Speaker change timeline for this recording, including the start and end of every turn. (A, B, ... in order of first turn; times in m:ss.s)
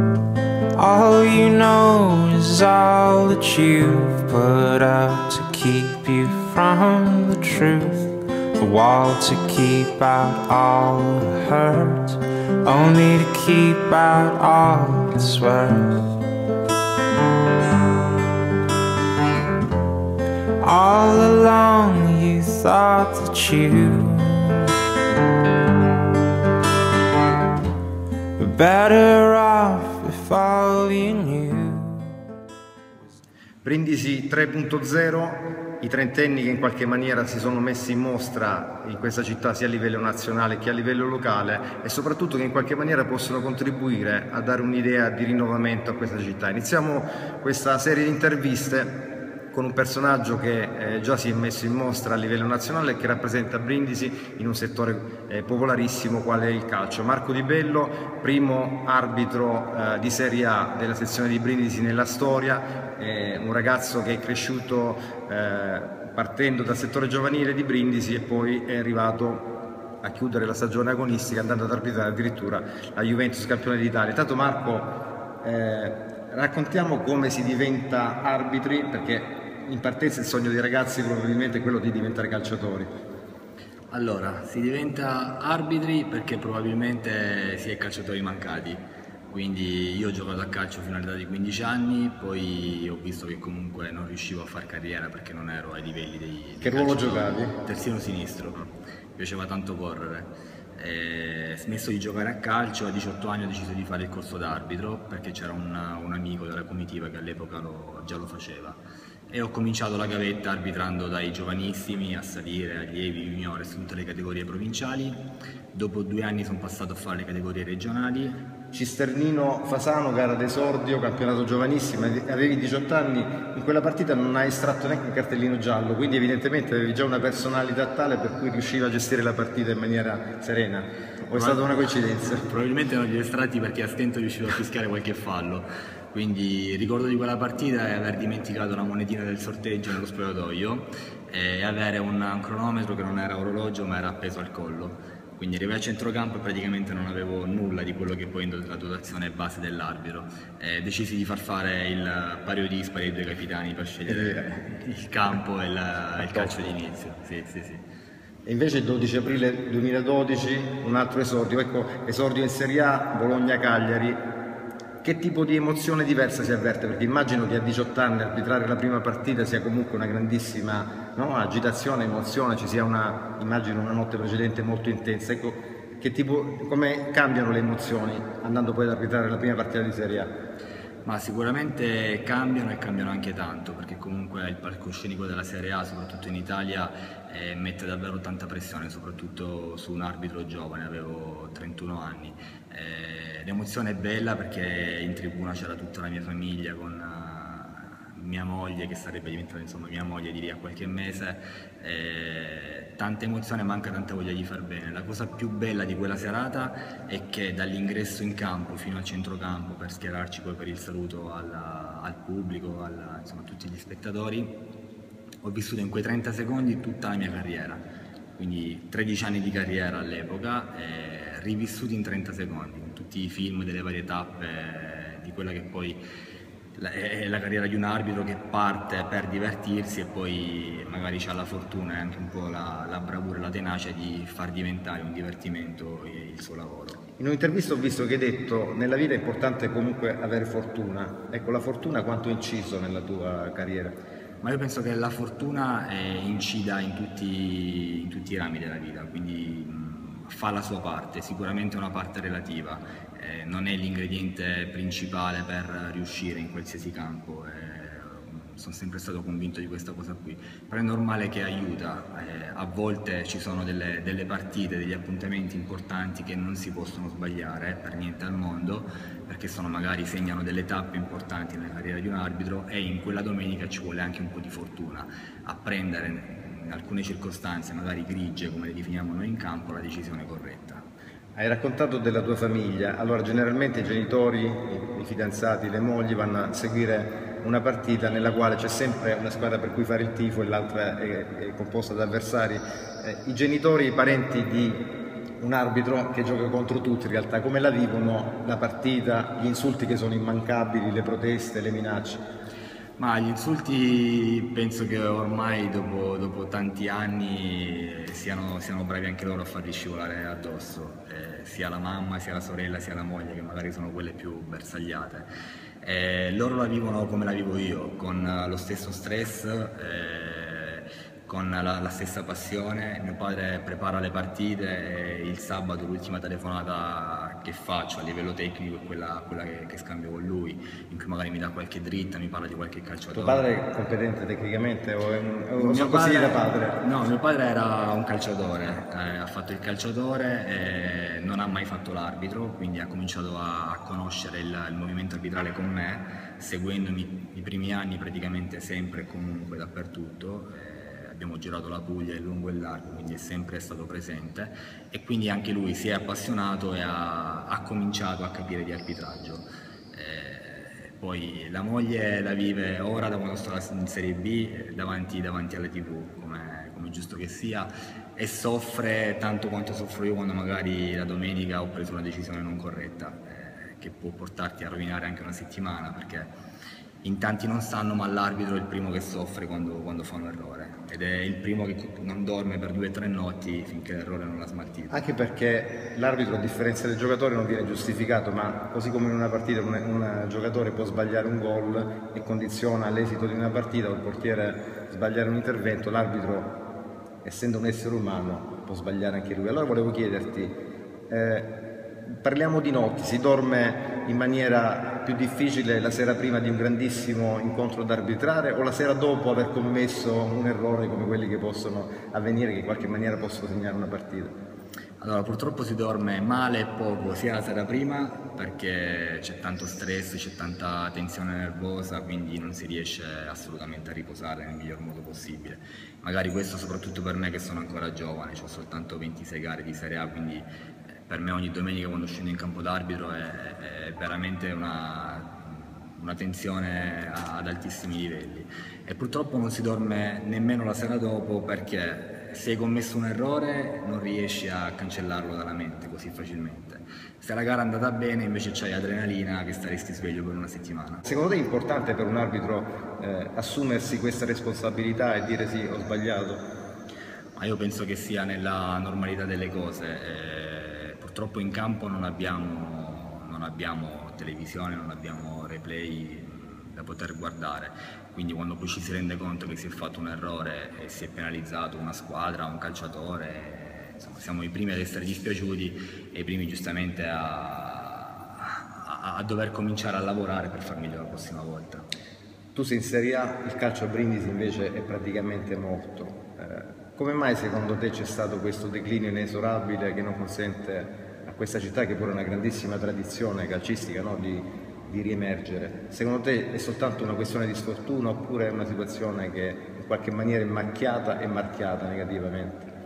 0:00.8-0:16.0 A
0:20.6-0:24.7 A
0:28.4-0:32.2 A
0:33.6-0:49.0 B
0:49.5-1:22.9 B
1:23.9-1:55.2 C
1:36.6-1:37.5 B
1:55.7-1:58.4 C
1:58.7-2:12.4 B
2:11.3-2:11.7 C
2:12.3-2:37.8 C
2:34.0-2:34.5 B
2:36.2-2:36.8 B
2:38.4-2:44.2 B
2:45.0-3:00.3 B
3:01.0-3:34.6 C
3:35.4-3:37.8 C
3:38.4-3:46.0 C
3:46.7-3:57.0 C
3:57.2-4:04.0 B
4:04.4-4:40.8 C
4:41.4-4:54.9 B
4:55.4-5:02.2 B
5:03.0-5:15.2 C
5:15.8-5:33.5 C
5:33.1-5:36.8 B
5:35.6-6:16.3 C
6:17.0-6:25.0 C
6:24.9-6:36.5 B
6:37.2-6:40.6 B
6:41.1-6:41.6 B
6:42.1-6:54.3 B
6:55.0-7:31.0 C
7:31.0-7:36.4 B
7:37.4-8:01.8 C
8:02.5-8:22.7 B